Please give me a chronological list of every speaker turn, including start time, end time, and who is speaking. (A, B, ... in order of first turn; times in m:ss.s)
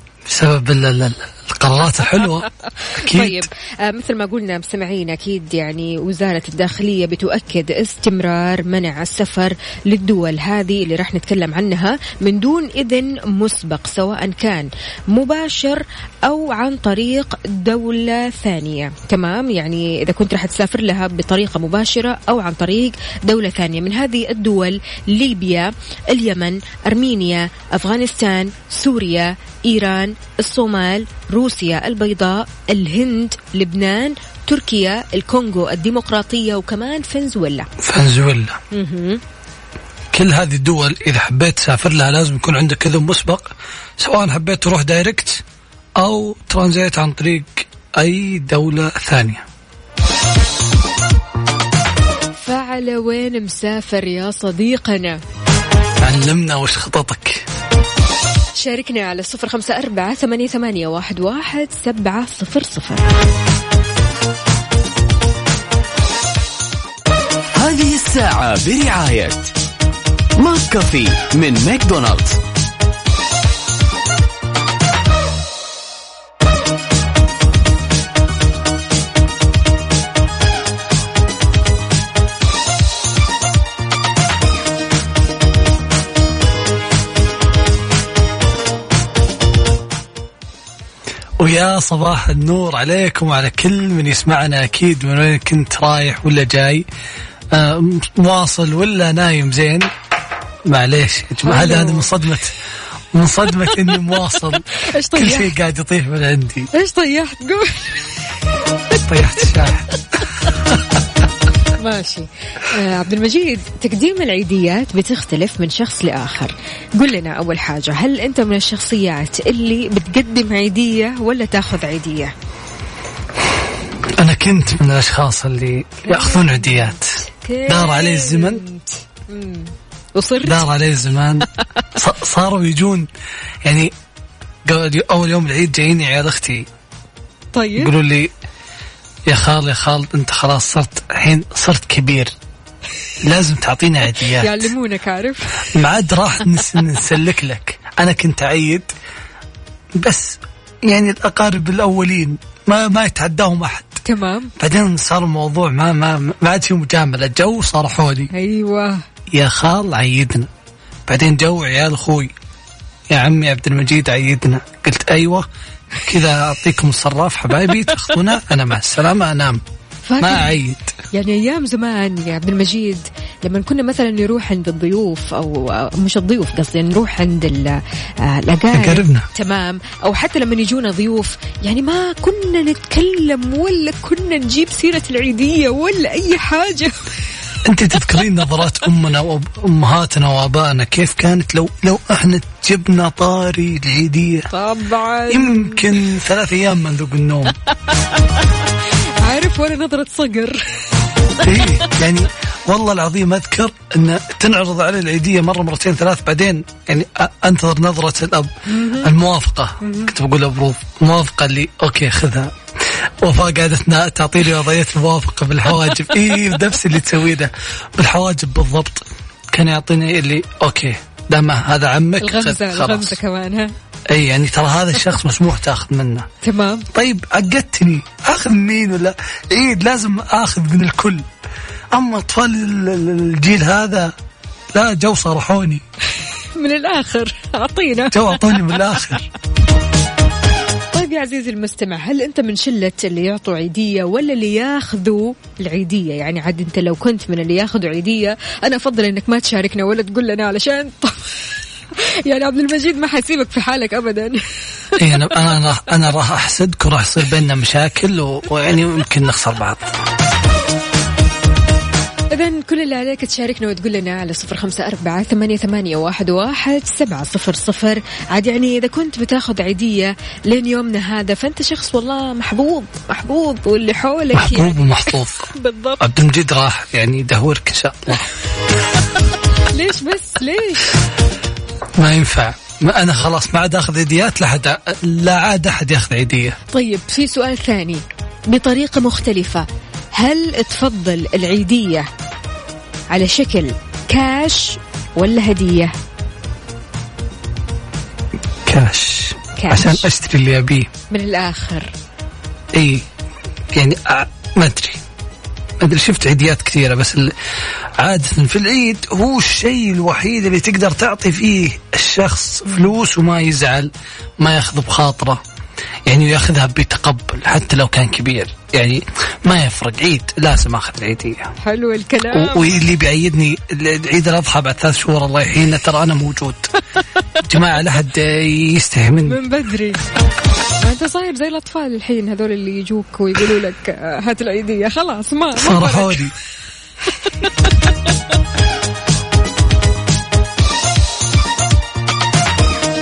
0:00.2-0:03.4 A
0:02.9-0:37.7 B
0:37.8-0:38.6 A
0:38.7-0:39.2 B
0:40.1-0:45.4 A
0:46.0-0:49.4 A
0:52.4-0:55.2 B
0:56.0-0:57.4 A
0:58.6-1:03.0 B
1:07.5-1:09.5 C
1:10.4-1:12.4 C
1:31.4-1:36.8 A
1:37.5-1:39.9 A
1:40.6-1:42.6 A
1:41.4-1:42.1 B
1:43.1-1:46.7 A
1:44.8-1:45.5 B
1:46.7-1:48.1 B
1:49.0-1:49.9 A
1:51.8-2:02.3 B
2:04.2-2:08.6 A
2:06.0-2:10.6 B
2:10.4-2:13.1 A
2:13.6-2:13.9 A
2:14.6-2:16.7 A
2:17.5-2:17.9 B
2:17.8-2:18.3 A
2:19.2-2:22.3 A
2:23.2-2:24.7 A
2:24.2-2:25.6 B
2:25.7-2:28.9 A
2:30.0-2:34.0 A
2:34.0-2:34.5 B
2:34.6-2:38.3 A
2:38.3-2:39.0 B
2:39.3-2:40.5 A
2:41.1-2:42.3 A
2:43.1-2:49.6 A
2:50.1-2:50.6 B
2:50.2-2:50.9 A
2:51.1-3:07.0 B
2:58.7-2:59.3 A
3:07.6-3:14.5 A
3:14.5-3:15.9 B
3:15.3-3:17.6 A
3:19.2-3:21.8 B
3:21.4-3:43.2 A
3:28.7-3:29.1 B
3:29.8-3:30.1 B
3:42.2-3:43.7 B
3:44.1-3:46.3 A
3:46.4-3:46.9 B
3:46.9-3:51.2 A
3:51.9-3:54.1 A
3:54.7-3:55.8 A
3:56.5-3:58.8 B
3:58.1-3:59.3 A
4:00.9-4:11.3 B
4:12.0-4:14.4 B
4:15.0-4:19.9 A
4:22.3-4:36.0 B
4:34.3-4:38.3 A
4:39.7-4:40.9 B
4:42.0-4:46.6 A
4:46.7-4:52.1 B
4:53.1-4:55.9 B
4:58.6-5:00.9 A
4:59.6-5:00.0 B
5:01.1-5:01.9 B
5:02.7-5:03.0 A
5:03.7-5:05.0 A
5:05.8-5:07.3 A
5:08.0-5:15.4 A
5:16.0-5:21.5 A
5:21.6-5:22.7 B
5:22.3-5:26.7 A
5:27.4-5:29.4 A
5:29.2-5:30.1 B
5:30.8-5:36.2 B
5:35.6-5:36.3 A